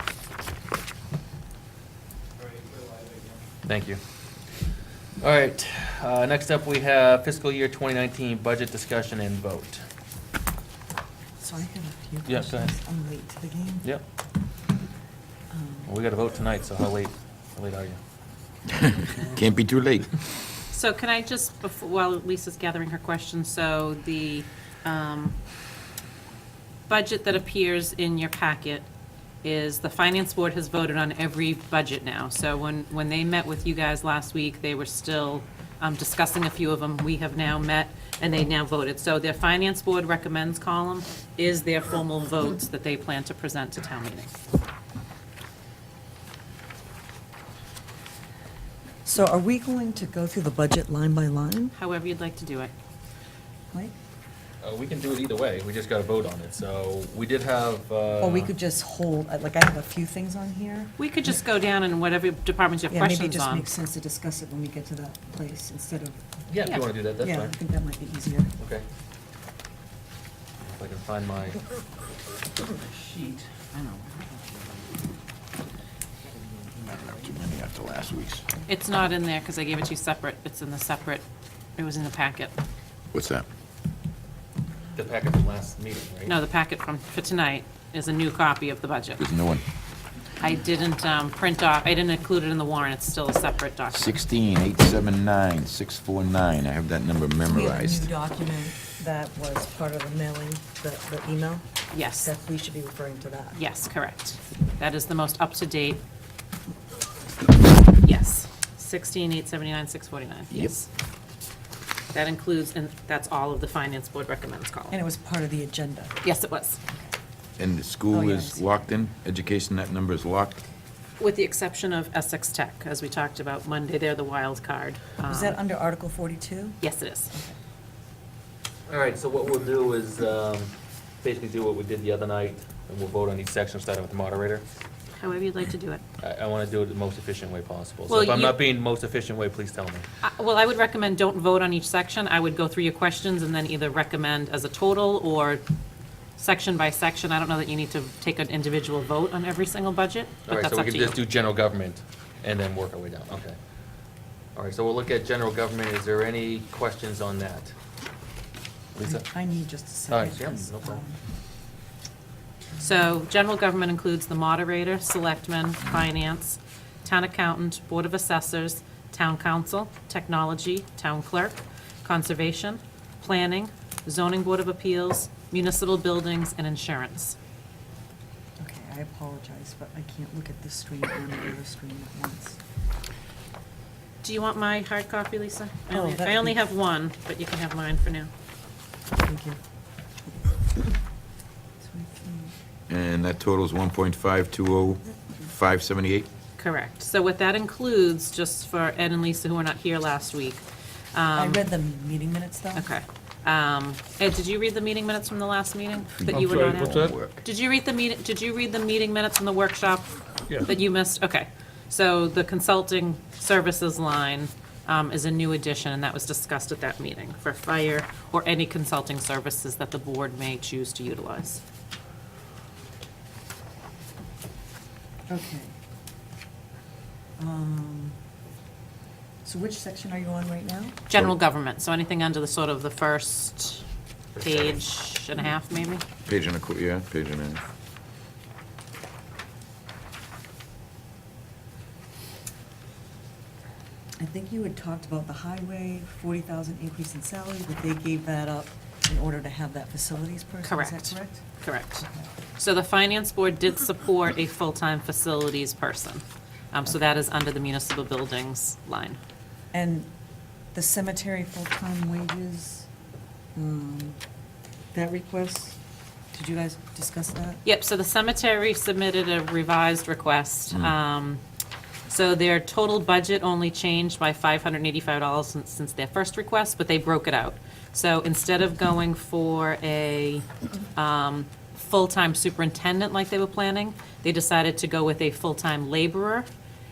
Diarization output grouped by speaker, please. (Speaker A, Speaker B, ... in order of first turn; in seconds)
Speaker A: 3.6-4.0, 5.2-9.8, 12.2-12.7, 15.9-18.0, 54.6-58.5, 66.5-67.5, 68.6-68.8, 70.6-71.6, 73.0-73.4, 84.9-86.3, 128.9-130.7, 131.2-134.6, 136.2-140.0, 150.5-153.6, 154.5-157.7, 159.0-159.3, 160.1-161.0, 206.3-207.1, 234.3-234.8
Speaker B: 11.4-13.9, 15.5-15.9, 49.0-51.7, 58.2-61.0, 62.9-66.4, 67.2-68.5, 73.7-74.8, 76.4-76.7, 97.4-103.6, 114.9-116.1, 118.1-118.7, 125.3-127.5, 159.0-161.2, 178.6-182.6, 185.9-186.6, 189.2-189.6, 190.3-190.8, 191.8-192.5, 201.3-202.9, 225.3-225.8, 227.4-228.2, 229.4-231.0, 244.2-251.4, 252.0-252.3, 259.7-260.1, 260.7-262.9, 263.6-264.2, 264.9-265.8, 266.3-267.6
Speaker C: 18.7-20.2, 76.8-78.5, 83.1-83.4, 89.2-89.6, 93.9-98.1, 117.6-120.6, 192.9-196.3, 206.2-207.4, 236.2-237.6
Speaker D: 20.7-25.4, 26.9-28.9, 29.4-44.3, 51.8-52.7, 61.0-63.7, 78.7-81.2, 81.8-82.6, 86.2-89.2, 90.4-94.1, 101.9-102.3, 103.5-106.0, 107.9-110.9, 112.1-115.0, 116.2-116.8, 121.2-125.6, 126.8-127.3, 135.2-136.0, 138.1-138.6, 140.2-145.6, 146.4-151.2, 162.8-177.3, 184.2-188.3, 196.6-201.7, 202.8-221.6, 231.1-233.8, 234.4-236.0, 250.6-259.2, 267.6-271.4, 272.1-286.5